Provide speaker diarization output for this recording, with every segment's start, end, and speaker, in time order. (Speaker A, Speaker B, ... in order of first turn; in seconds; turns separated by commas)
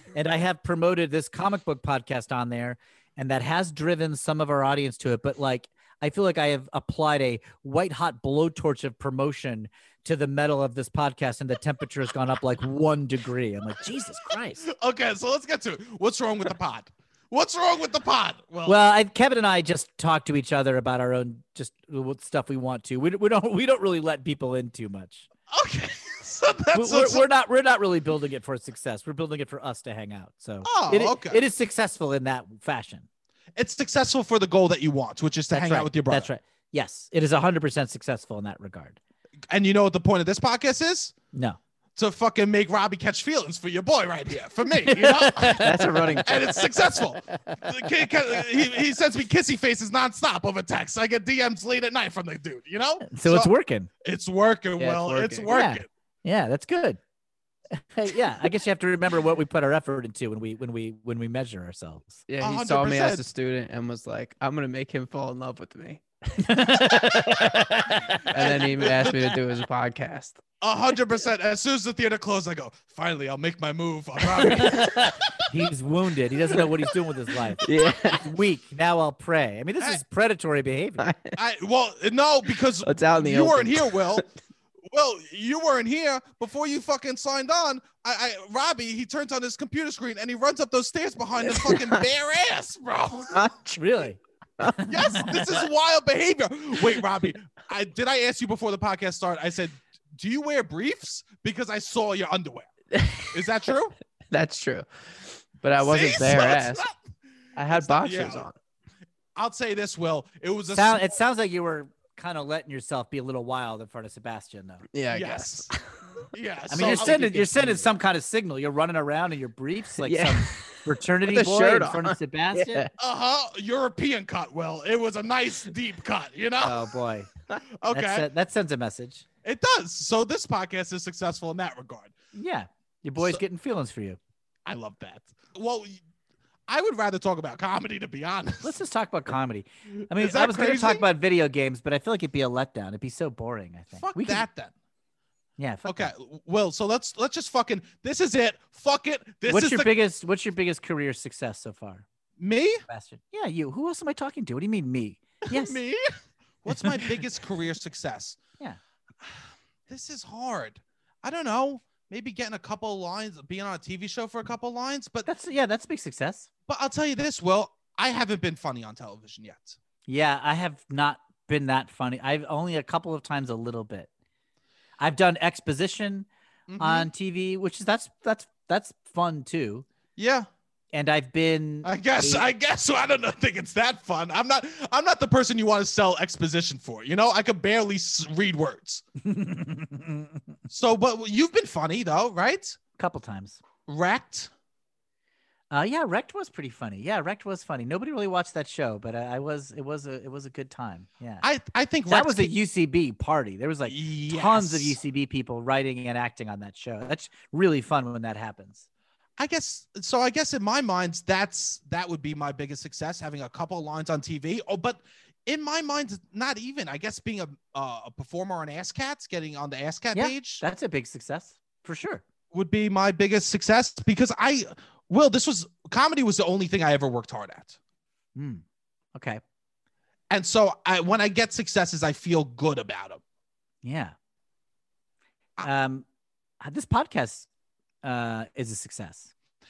Speaker A: 0.1-14.6, Speaker B: 14.6-18.8, Speaker A: 18.6-25.3, Speaker B: 25.5-27.2, Speaker A: 26.7-33.1, Speaker B: 30.6-31.4, Speaker B: 33.5-36.3, Speaker A: 35.5-39.0, Speaker B: 39.5-41.1, Speaker B: 42.0-53.5, Speaker A: 44.8-46.3, Speaker C: 45.4-47.0, Speaker A: 53.0-53.9, Speaker B: 54.0-55.9, Speaker C: 54.8-55.5, Speaker A: 55.5-57.0, Speaker A: 57.9-62.2, Speaker C: 62.3-67.6, Speaker B: 62.4-63.2, Speaker A: 66.4-69.2, Speaker C: 68.3-70.4, Speaker B: 68.4-69.2, Speaker B: 70.6-75.2, Speaker C: 74.2-75.0, Speaker A: 74.6-81.1, Speaker C: 77.6-78.2, Speaker C: 81.0-81.4, Speaker B: 81.3-84.2, Speaker C: 82.8-84.2, Speaker B: 84.9-93.4, Speaker C: 91.5-92.0, Speaker C: 93.3-93.6, Speaker A: 93.6-95.4, Speaker B: 94.9-102.7, Speaker C: 102.9-103.4, Speaker B: 103.3-104.0, Speaker C: 104.3-106.8, Speaker B: 105.8-107.0, Speaker C: 107.5-108.5, Speaker B: 107.7-108.5, Speaker B: 109.3-111.1, Speaker A: 110.7-114.8, Speaker C: 114.9-116.0, Speaker B: 115.1-115.7, Speaker B: 116.3-117.8, Speaker A: 116.7-122.8, Speaker C: 116.8-117.1, Speaker C: 120.0-122.9, Speaker B: 123.0-126.9, Speaker A: 126.6-127.3, Speaker B: 127.8-128.3, Speaker A: 127.9-129.2, Speaker B: 129.4-132.1, Speaker A: 132.3-134.2, Speaker B: 134.7-136.0, Speaker B: 136.7-138.7, Speaker A: 138.6-144.5, Speaker B: 140.1-141.0, Speaker B: 144.0-144.7, Speaker A: 145.6-146.1, Speaker B: 145.8-149.9, Speaker A: 149.5-152.1, Speaker B: 152.4-152.8, Speaker A: 152.9-155.8, Speaker B: 155.5-156.1, Speaker B: 156.6-158.4, Speaker A: 156.7-157.0, Speaker B: 159.2-165.3, Speaker A: 165.2-166.5, Speaker B: 166.7-169.8, Speaker A: 170.1-174.1, Speaker A: 175.0-176.3, Speaker B: 176.7-177.1, Speaker A: 176.8-179.8, Speaker B: 180.2-180.5, Speaker A: 180.9-182.4, Speaker B: 181.8-189.0, Speaker A: 189.2-190.4, Speaker B: 190.7-192.8, Speaker A: 193.0-193.6, Speaker B: 193.9-194.5, Speaker A: 195.7-201.4, Speaker B: 201.4-202.5, Speaker A: 202.1-208.8, Speaker B: 203.9-205.0, Speaker B: 209.4-220.6, Speaker A: 220.1-222.2, Speaker B: 222.5-227.8, Speaker A: 228.3-228.6, Speaker A: 229.1-229.4, Speaker B: 230.3-233.2, Speaker A: 233.8-234.1, Speaker A: 235.6-236.1, Speaker A: 236.6-237.5, Speaker A: 238.0-239.3